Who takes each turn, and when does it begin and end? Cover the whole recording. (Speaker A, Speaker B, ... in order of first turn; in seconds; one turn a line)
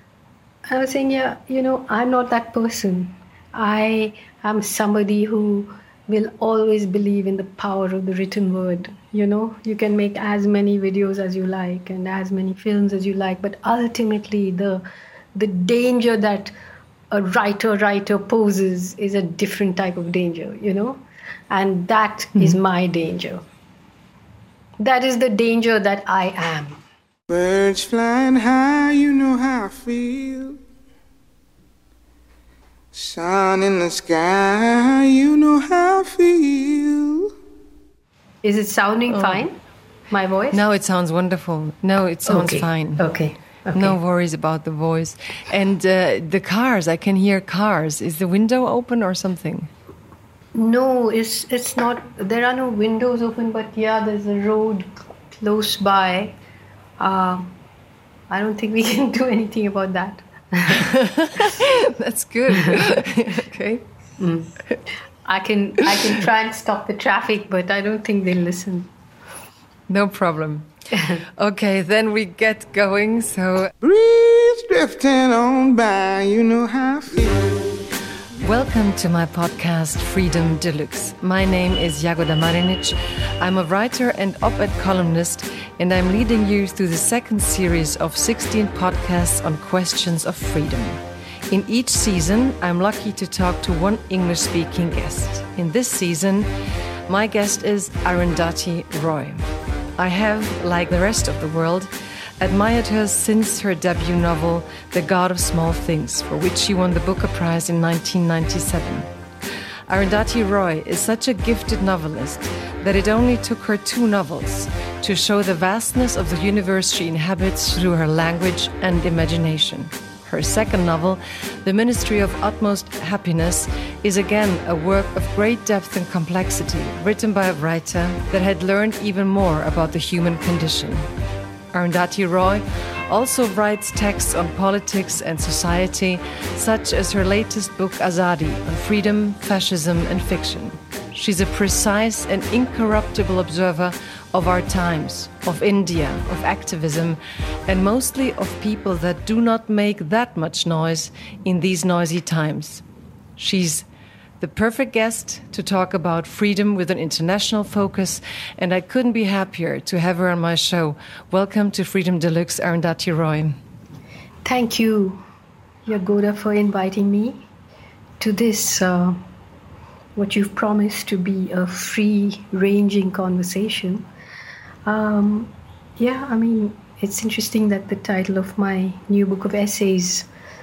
Speaker A: 0.7-14.8
Speaker A: 15.3-16.5
Speaker A: 17.1-21.0
Speaker A: 21.5-23.4
Speaker A: 24.8-26.8
Speaker B: 27.3-30.6
Speaker B: 32.9-37.3
Speaker A: 38.4-39.5
Speaker C: 39.1-39.4
Speaker A: 40.1-40.6
Speaker C: 40.5-43.0
Speaker A: 42.2-44.0
Speaker C: 43.7-49.7
Speaker A: 50.5-56.4
Speaker A: 57.0-57.5
Speaker A: 58.3-60.9
Speaker C: 60.7-63.8
Speaker A: 64.2-64.5
Speaker A: 65.2-68.9
Speaker C: 69.9-70.7
Speaker C: 71.3-73.7
Speaker B: 73.8-77.7
Speaker C: 78.4-96.5
Speaker C: 97.1-109.1
Speaker C: 109.9-131.0
Speaker C: 131.7-152.8
Speaker C: 153.4-153.8
Speaker C: 154.4-163.6
Speaker A: 164.4-165.2
Speaker A: 165.8-167.4
Speaker A: 168.2-169.2
Speaker A: 170.2-174.1
Speaker A: 174.8-180.3